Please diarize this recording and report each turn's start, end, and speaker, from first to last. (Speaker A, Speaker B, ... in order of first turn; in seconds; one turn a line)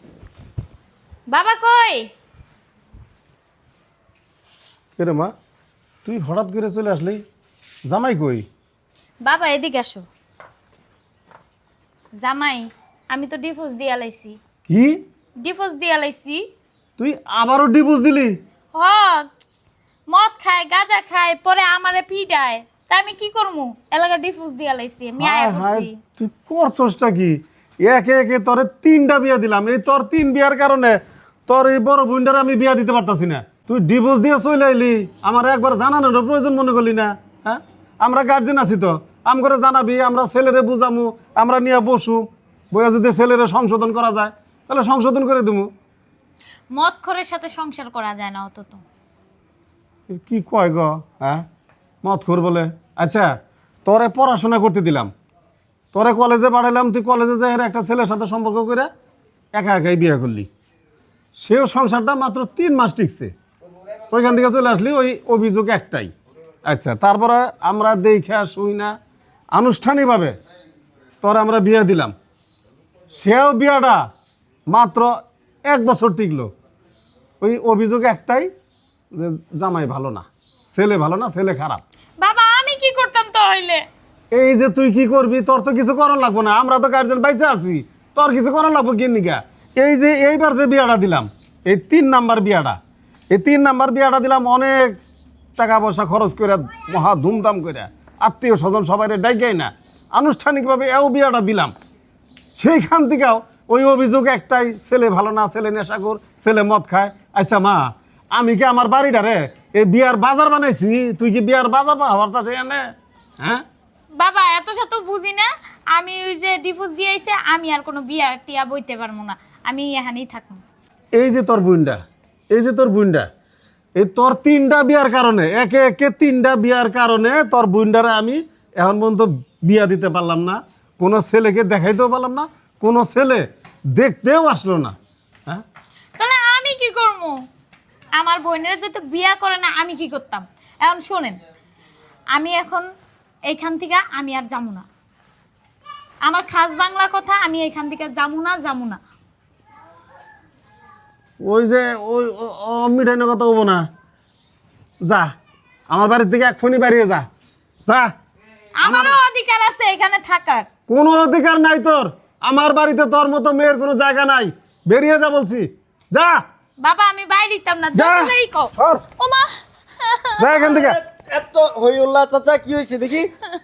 Speaker A: 1.3-2.1
Speaker B: 5.0-5.3
Speaker B: 6.0-7.2
Speaker B: 7.9-8.4
Speaker A: 9.2-10.0
Speaker A: 12.2-14.4
Speaker B: 14.7-15.0
Speaker A: 15.4-16.4
Speaker B: 17.0-18.4
Speaker A: 18.7-19.3
Speaker A: 20.1-26.0
Speaker B: 25.2-45.7
Speaker A: 46.7-48.8
Speaker B: 50.1-51.4
Speaker B: 52.0-53.3
Speaker B: 53.8-55.1
Speaker B: 55.9-58.9
Speaker B: 59.5-60.5
Speaker B: 61.4-63.3
Speaker B: 64.1-66.1
Speaker B: 66.7-68.9
Speaker B: 69.5-70.3
Speaker B: 71.2-72.1
Speaker B: 73.1-74.0
Speaker B: 74.7-75.1
Speaker B: 75.7-76.5
Speaker B: 77.4-78.5
Speaker B: 79.1-81.8
Speaker A: 82.2-83.8
Speaker B: 84.3-92.8
Speaker B: 93.3-95.0
Speaker B: 95.6-101.7
Speaker B: 102.5-112.9
Speaker A: 114.1-120.6
Speaker B: 121.1-122.0
Speaker B: 122.5-123.2
Speaker B: 124.0-134.9
Speaker A: 136.2-137.4
Speaker A: 138.2-141.4
Speaker A: 142.3-142.9
Speaker A: 143.5-144.8
Speaker A: 146.2-149.0
Speaker B: 151.4-153.8
Speaker B: 155.0-155.3
Speaker B: 155.9-157.2
Speaker A: 158.8-160.7
Speaker B: 158.8-159.2
Speaker B: 160.9-166.4
Speaker A: 166.8-170.6
Speaker B: 167.9-169.0
Speaker B: 170.4-171.0
Speaker C: 170.6-173.3